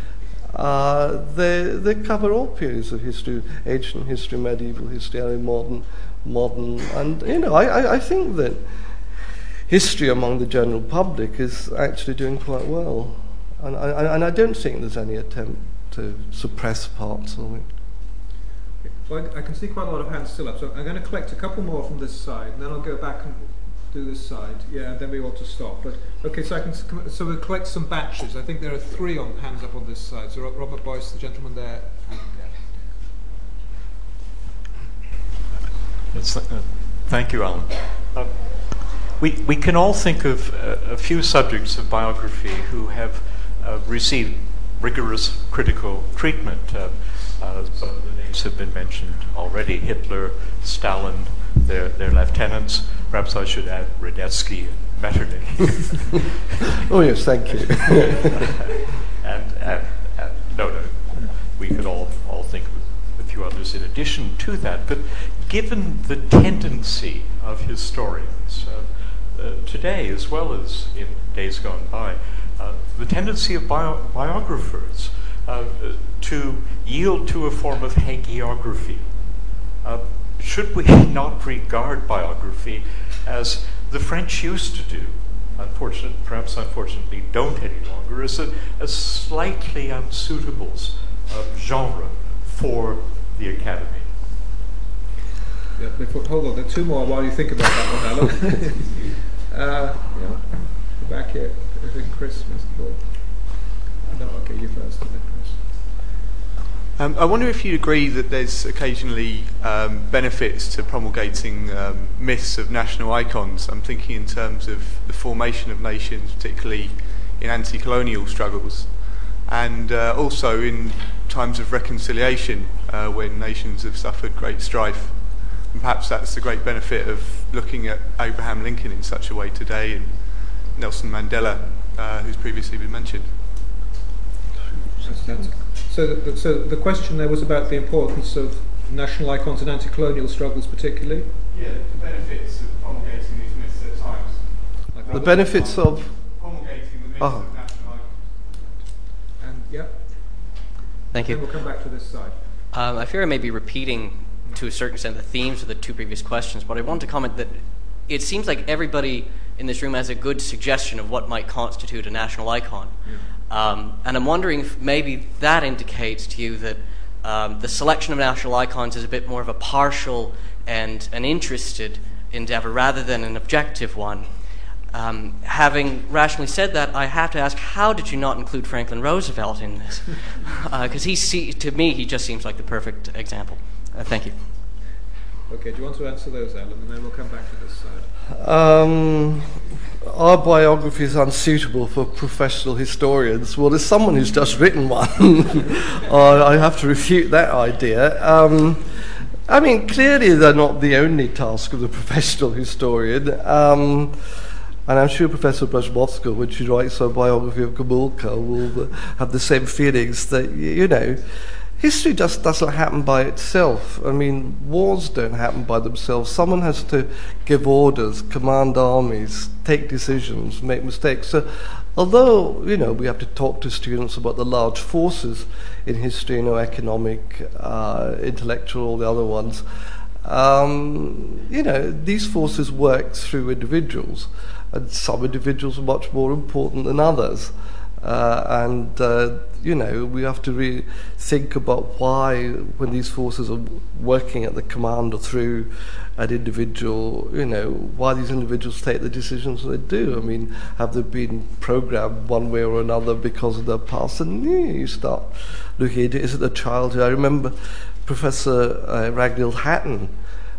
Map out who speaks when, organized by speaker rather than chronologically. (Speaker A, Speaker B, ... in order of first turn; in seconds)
Speaker A: 0.5-8.7, 9.7-17.7, 56.8-58.4, 134.9-135.5, 145.1-146.1, 147.2-147.5, 188.3-198.9, 199.5-204.2, 204.8-229.6, 230.2-260.1
Speaker B: 18.8-32.7, 95.8-105.8, 135.0-141.3, 144.9-145.6, 149.4-150.5, 151.2-152.4, 185.5-188.1
Speaker C: 36.0-56.3, 57.5-58.6, 59.2-94.7
Speaker D: 107.0-133.5, 141.5-148.9
Speaker E: 151.1-151.4, 152.7-174.4, 174.9-184.3